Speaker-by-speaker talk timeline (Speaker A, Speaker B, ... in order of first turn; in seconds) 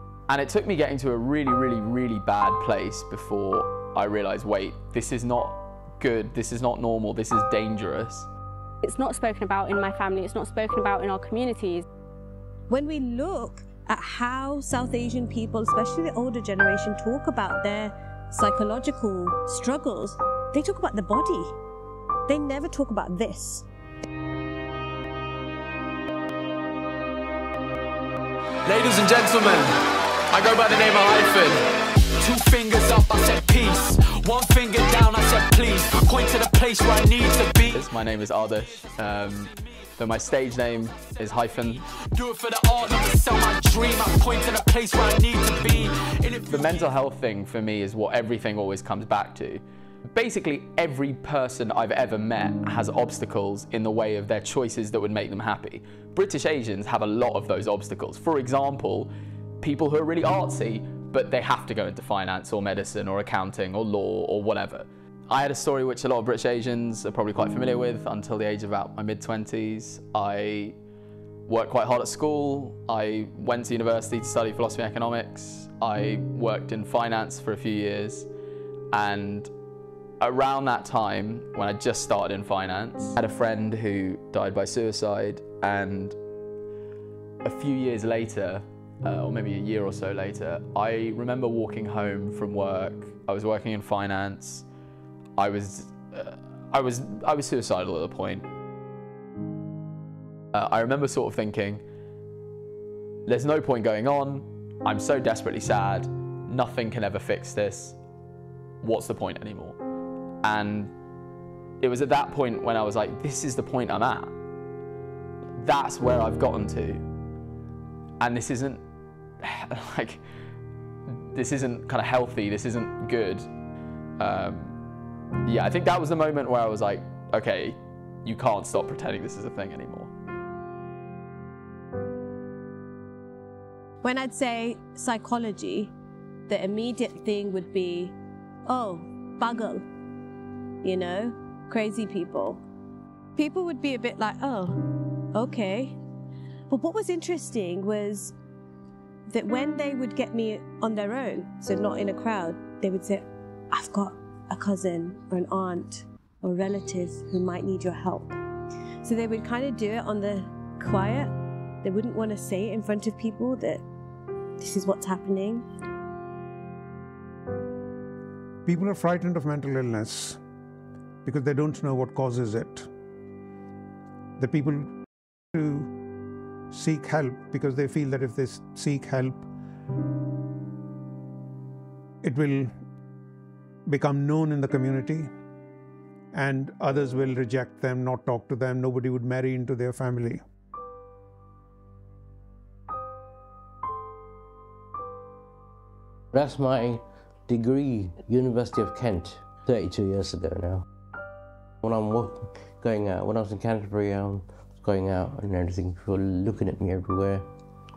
Speaker A: 0.3-8.3, 28.7-29.7, 30.3-31.6, 32.4-33.5, 34.0-34.4, 34.9-70.7, 71.5-78.3, 78.9-79.5, 80.2-86.2, 87.4-94.7, 95.4-98.5, 100.5-101.8, 103.3-108.0, 108.8-109.8, 110.4-110.9, 111.8-114.3, 115.6-117.0, 118.2-118.8, 119.4-120.2, 121.3-123.5, 124.2-124.7, 125.5-130.1
Speaker B: 8.8-11.8
Speaker C: 12.7-21.5, 22.3-23.6, 134.0-135.9, 136.5-138.1, 138.7-139.8, 140.8-142.6, 143.3-144.8, 145.3-145.9, 146.7-148.3, 149.3-158.4, 159.0-161.3, 161.8-163.8, 164.6-165.6
Speaker D: 28.7-29.7, 30.4-31.2, 32.2-37.8, 42.2-46.5
Speaker E: 168.6-170.4, 171.2-172.9, 174.4-174.9, 175.5-175.9, 176.7-179.5, 182.2-182.7, 183.8-185.3, 186.3-190.4
Speaker F: 196.3-200.8, 201.8-207.5